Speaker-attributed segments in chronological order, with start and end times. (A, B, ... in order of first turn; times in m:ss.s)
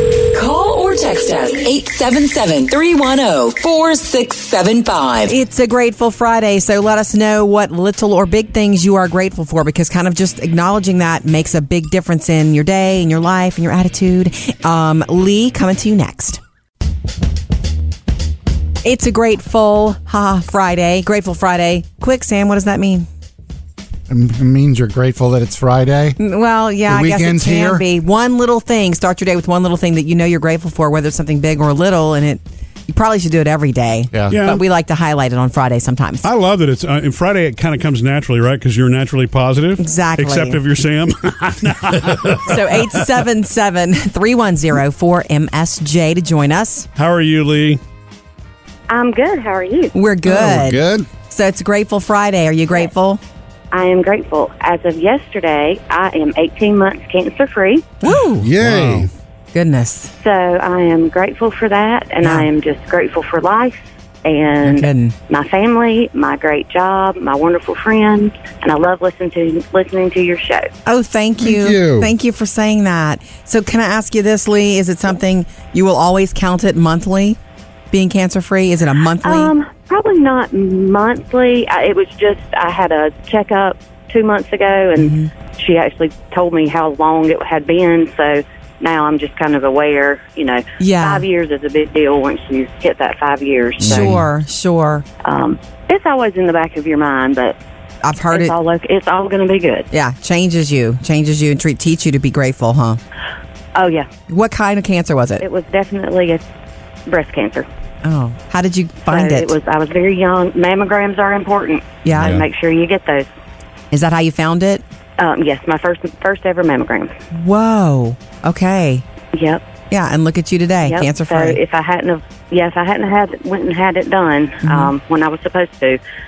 0:00.3-0:05.3 A
0:05.3-0:16.4 B
0:18.8-0:23.1 B
0:24.1-0:26.2 C
0:26.2-0:36.2 B
0:26.8-0:27.8 C
0:34.1-0:34.4 C
0:34.3-0:34.6 D
0:36.2-0:42.4 D
0:39.8-0:40.6 B
0:42.4-0:46.9 B
0:47.0-0:47.8 D
0:48.9-0:49.9 E
0:49.9-0:53.2 B
0:50.2-0:51.1 C
0:53.7-0:57.9 E
0:58.0-0:58.5 B
0:58.4-0:59.1 C
0:58.6-0:59.1 D
0:59.5-1:00.1 B
1:00.2-1:10.7 E
1:04.6-1:05.1 B
1:10.8-1:17.4 B
1:11.4-1:12.1 C
1:17.9-1:19.5 B
1:19.2-1:34.1 E
1:25.0-1:25.3 B
1:30.8-1:31.2 B
1:33.8-1:34.3 C
1:33.8-1:35.0 B
1:35.2-1:37.6 E
1:38.0-1:38.5 B
1:38.3-1:39.9 E
1:39.9-1:43.0 B
1:43.8-1:44.1 E
1:44.3-1:45.4 B
1:45.4-1:46.4 E
1:47.1-1:47.7 E
1:48.0-1:49.5 B
1:49.1-1:53.3 E
1:52.0-1:52.4 B
1:52.1-1:52.4 C
1:53.9-1:54.8 B
1:55.2-1:57.1 E
1:57.3-1:59.0 B
1:59.3-1:59.6 E
1:59.9-2:01.6 B
2:00.8-2:06.0 E
2:04.6-2:04.9 B